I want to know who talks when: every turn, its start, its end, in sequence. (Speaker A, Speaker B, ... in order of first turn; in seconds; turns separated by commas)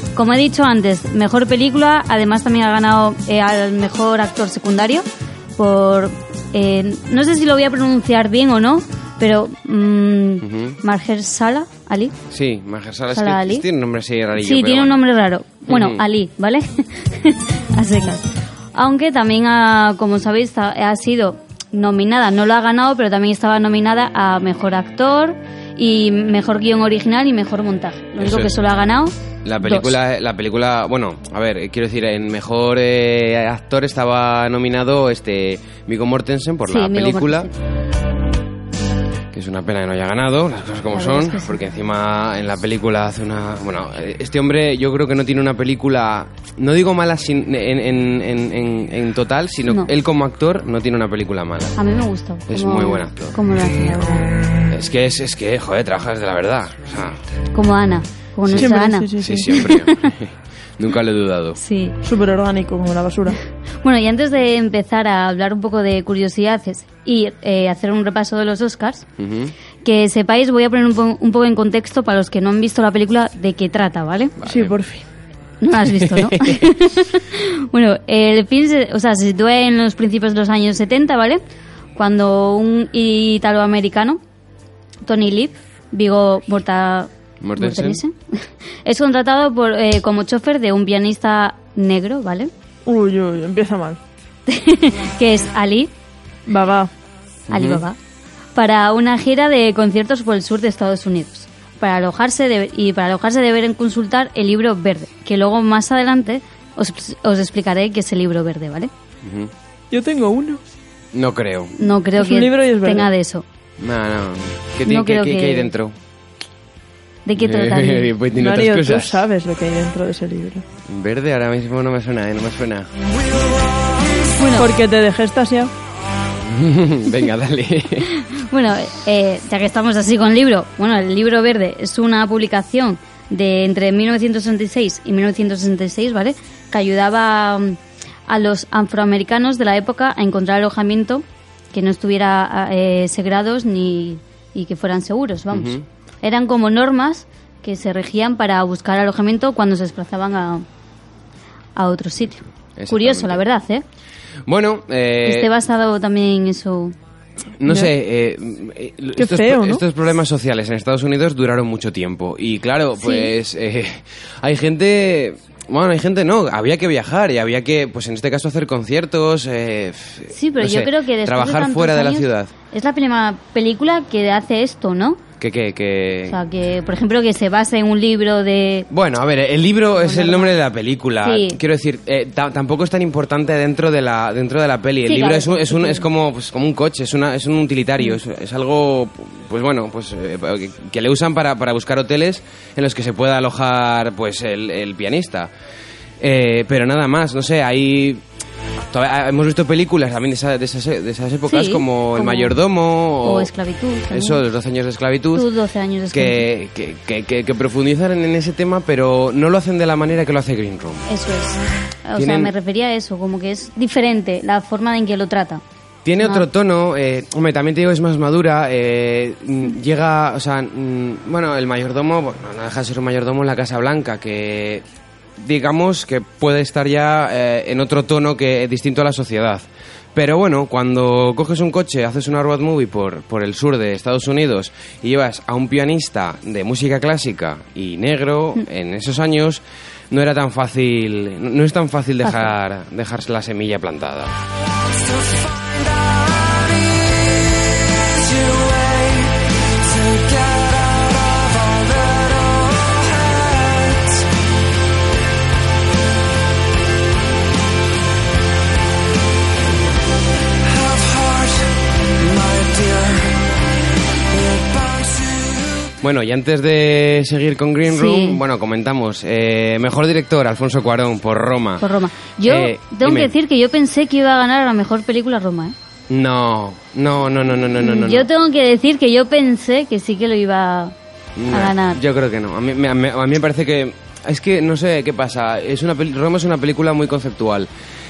Speaker A: 0.1-5.0, Speaker A: 5.6-12.1, Speaker B: 10.4-10.8, Speaker B: 12.3-15.0, Speaker A: 13.1-13.6, Speaker A: 14.3-29.9, Speaker B: 15.7-16.0, Speaker B: 28.2-28.5, Speaker B: 29.4-37.5, Speaker A: 36.7-37.5, Speaker B: 39.3-51.8, Speaker A: 40.9-41.6, Speaker A: 51.8-54.3, Speaker B: 52.5-53.4, Speaker B: 54.7-57.2, Speaker A: 57.5-60.1, Speaker B: 58.5-61.6, Speaker C: 58.6-59.5, Speaker A: 61.6-62.0, Speaker C: 62.0-63.4, Speaker A: 63.8-69.1, Speaker B: 69.2-69.5, Speaker A: 69.8-74.3, Speaker B: 74.4-74.7, Speaker C: 74.5-75.0, Speaker A: 75.6-81.4, Speaker B: 76.0-76.7, Speaker A: 81.9-84.2, Speaker A: 85.0-88.1, Speaker B: 87.4-88.0, Speaker A: 88.8-92.5, Speaker C: 92.8-94.0, Speaker A: 94.5-95.9, Speaker C: 96.5-96.9, Speaker B: 97.5-97.8, Speaker A: 97.5-98.0, Speaker A: 98.5-108.9, Speaker B: 109.2-109.5, Speaker C: 109.9-110.6, Speaker B: 111.1-111.8, Speaker A: 111.8-113.4, Speaker C: 112.2-113.1, Speaker B: 113.8-115.9, Speaker A: 114.8-115.7, Speaker A: 117.2-118.1, Speaker B: 117.4-119.2, Speaker C: 118.3-120.6, Speaker B: 120.9-122.9, Speaker A: 124.3-124.7, Speaker C: 124.5-125.7, Speaker B: 126.5-128.1, Speaker A: 128.2-150.6, Speaker B: 145.5-145.8, Speaker A: 151.7-153.8, Speaker B: 152.8-153.4, Speaker B: 154.5-155.5, Speaker A: 155.2-156.9, Speaker B: 157.6-172.5, Speaker C: 159.2-159.8, Speaker A: 163.0-163.3, Speaker A: 170.3-175.2, Speaker B: 175.4-176.4, Speaker A: 176.3-178.9, Speaker B: 178.9-195.5, Speaker A: 179.9-180.6, Speaker A: 181.2-181.6, Speaker A: 185.1-186.1, Speaker B: 196.2-198.2, Speaker B: 198.9-203.5, Speaker A: 201.5-202.6, Speaker A: 203.2-204.4, Speaker B: 204.1-205.5, Speaker A: 205.3-206.5, Speaker B: 206.1-211.1, Speaker A: 211.1-215.6, Speaker B: 212.2-212.5, Speaker B: 216.0-224.8, Speaker A: 216.2-216.4, Speaker B: 225.4-244.3, Speaker D: 245.3-246.8, Speaker D: 248.0-254.2, Speaker D: 260.8-261.6, Speaker D: 262.2-263.3, Speaker D: 264.4-265.6, Speaker B: 266.0-271.9, Speaker A: 267.9-268.4, Speaker A: 271.8-275.7, Speaker B: 272.4-273.3, Speaker B: 276.1-278.3, Speaker A: 277.8-280.9, Speaker B: 281.4-287.7, Speaker A: 281.5-282.0